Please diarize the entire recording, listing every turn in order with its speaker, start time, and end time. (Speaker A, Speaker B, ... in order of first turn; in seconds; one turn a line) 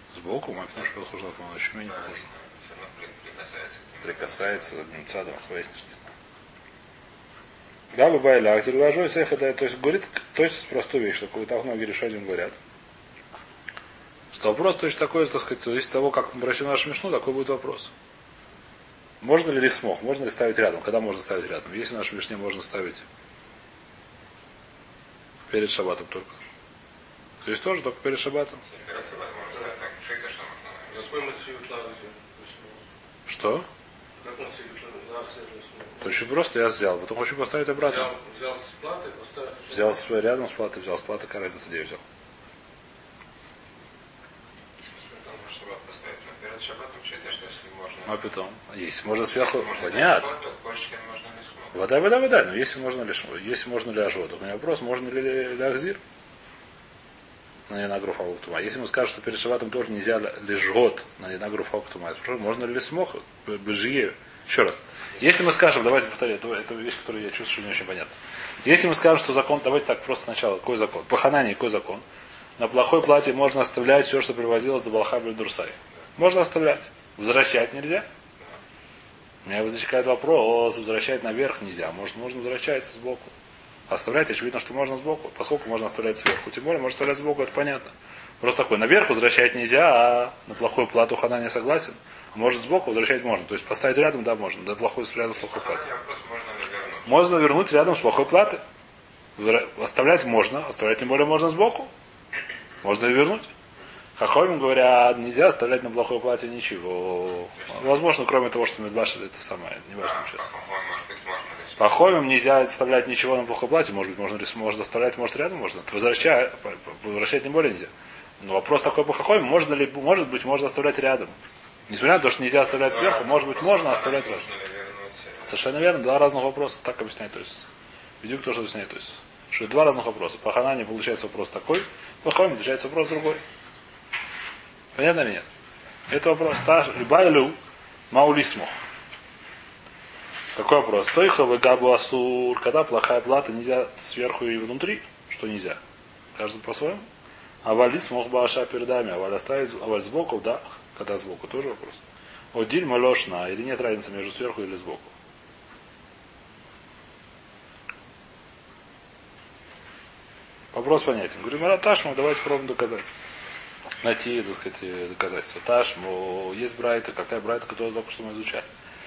Speaker A: 0.1-2.2
Speaker B: 1.9-4.6
Speaker A: 4.0-6.1
Speaker A: 7.9-12.6
Speaker A: 14.3-17.9
Speaker A: 19.2-23.0
Speaker A: 25.5-26.3
Speaker A: 27.4-28.6
Speaker B: 28.7-31.2
Speaker C: 30.9-32.8
Speaker A: 33.2-33.6
Speaker C: 34.2-36.2
Speaker A: 36.0-38.1
Speaker C: 37.8-40.0
Speaker A: 39.7-42.0
Speaker B: 44.9-48.2
Speaker A: 48.0-50.3
Speaker B: 49.5-51.7
Speaker A: 51.7-56.0
Speaker A: 57.7-68.1
Speaker A: 68.6-72.0
Speaker A: 72.6-78.0
Speaker A: 79.4-83.3
Speaker A: 83.9-95.9
Speaker B: 95.4-97.1
Speaker A: 97.0-98.6
Speaker A: 99.4-101.9
Speaker A: 102.8-103.5
Speaker A: 104.2-110.5
Speaker B: 110.0-112.1
Speaker A: 111.8-117.9
Speaker A: 118.4-121.3
Speaker A: 121.9-124.5
Speaker B: 122.8-125.4
Speaker A: 125.4-127.7
Speaker A: 128.2-133.4
Speaker A: 135.0-135.5
Speaker A: 136.1-137.6
Speaker A: 138.1-138.7
Speaker A: 140.6-145.8
Speaker A: 146.3-147.0
Speaker A: 147.6-152.0
Speaker A: 152.5-155.1
Speaker A: 160.7-163.1
Speaker A: 164.0-168.7